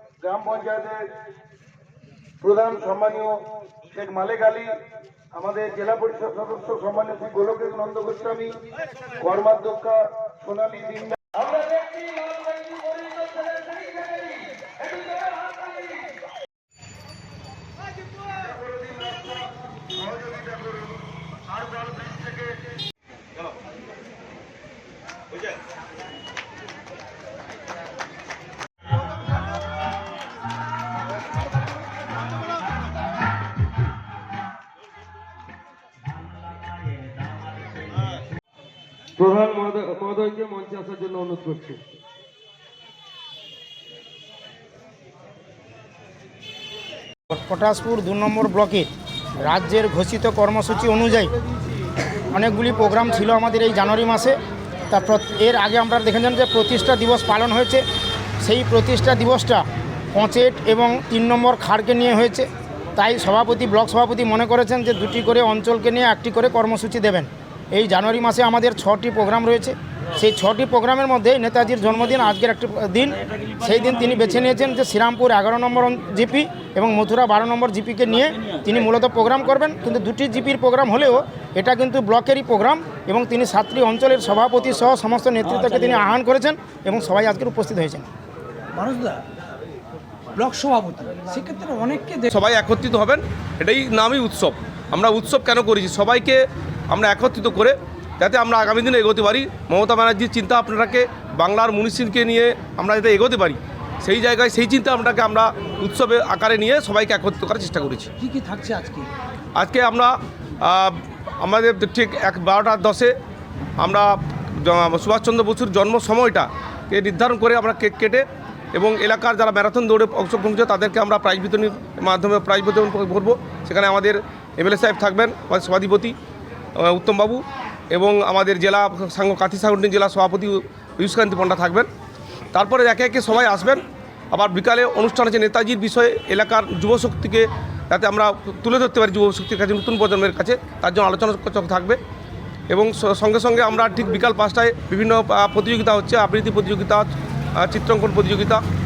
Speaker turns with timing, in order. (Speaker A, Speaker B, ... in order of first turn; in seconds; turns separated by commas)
Speaker A: 0.2-1.0, Speaker A: 2.4-3.4, Speaker A: 3.9-4.7, Speaker A: 5.3-8.5, Speaker A: 9.2-16.1, Speaker A: 18.3-20.9, Speaker A: 21.5-22.5, Speaker B: 39.2-41.8, Speaker C: 47.3-51.3, Speaker C: 52.3-57.8, Speaker C: 58.4-88.1, Speaker D: 88.7-89.2, Speaker D: 90.3-92.3, Speaker E: 92.3-108.1, Speaker D: 108.2-109.1, Speaker E: 109.5-113.1, Speaker E: 113.8-126.1, Speaker E: 126.8-131.9, Speaker E: 132.5-142.0, Speaker E: 142.7-147.1, Speaker E: 147.6-148.6